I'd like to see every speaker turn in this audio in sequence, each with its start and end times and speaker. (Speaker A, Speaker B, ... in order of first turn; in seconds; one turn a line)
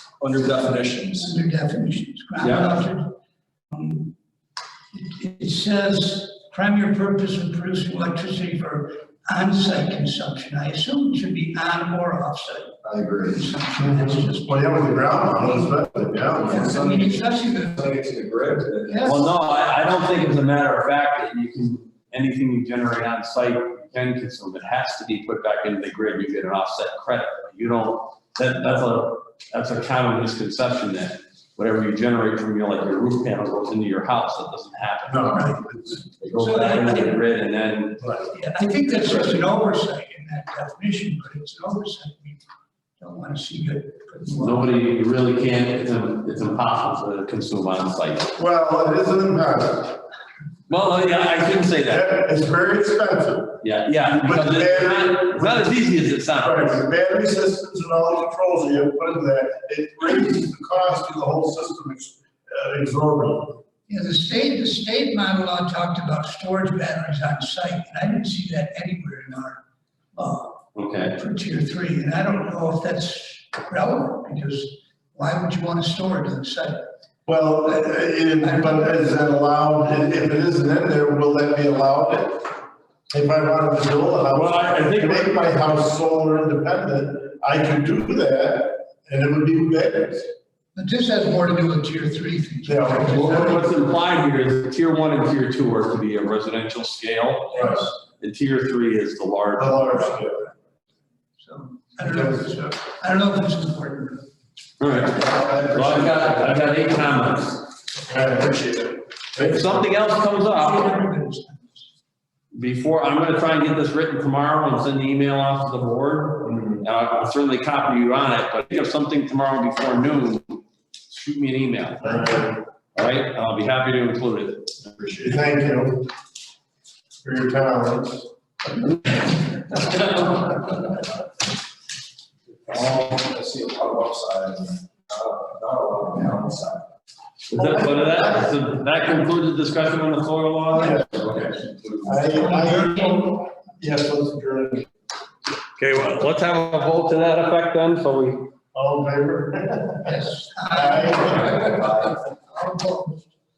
Speaker A: 0.2-1.3
Speaker B: 1.1-3.1
Speaker A: 2.4-2.8
Speaker B: 3.7-4.1
Speaker B: 4.9-14.5
Speaker C: 12.8-13.4
Speaker D: 13.8-16.7
Speaker B: 16.4-17.9
Speaker C: 16.5-17.2
Speaker C: 17.7-19.1
Speaker B: 18.9-19.3
Speaker A: 19.0-35.3
Speaker D: 35.1-36.0
Speaker B: 35.3-35.6
Speaker A: 36.2-38.1
Speaker B: 36.4-37.2
Speaker D: 38.0-38.3
Speaker B: 38.3-42.4
Speaker A: 38.9-39.4
Speaker B: 43.0-44.7
Speaker A: 44.3-48.3
Speaker D: 48.4-50.0
Speaker A: 50.7-52.1
Speaker D: 51.9-55.8
Speaker A: 53.6-56.8
Speaker D: 56.3-63.6
Speaker B: 63.9-69.6
Speaker B: 70.2-70.6
Speaker A: 70.7-71.2
Speaker B: 71.2-76.8
Speaker D: 77.2-82.5
Speaker B: 78.4-78.9
Speaker D: 83.1-90.3
Speaker A: 84.3-85.3
Speaker B: 90.7-93.7
Speaker D: 92.6-93.6
Speaker A: 93.1-100.1
Speaker D: 97.5-97.8
Speaker D: 99.6-100.5
Speaker B: 101.4-104.2
Speaker D: 102.0-102.5
Speaker A: 104.8-107.6
Speaker C: 105.2-106.6
Speaker D: 108.0-109.8
Speaker A: 109.4-111.0
Speaker B: 110.4-111.8
Speaker A: 112.5-124.7
Speaker D: 122.0-122.5
Speaker D: 124.9-126.1
Speaker D: 127.2-128.3
Speaker A: 129.7-130.6
Speaker C: 132.7-136.8
Speaker A: 137.5-141.0
Speaker D: 137.5-138.3
Speaker B: 140.8-141.0
Speaker D: 140.8-141.1
Speaker C: 141.2-142.2
Speaker D: 142.0-144.9
Speaker B: 142.3-143.3
Speaker A: 145.8-148.4
Speaker D: 148.7-150.1
Speaker B: 150.0-153.2
Speaker D: 150.7-152.0
Speaker A: 151.3-151.6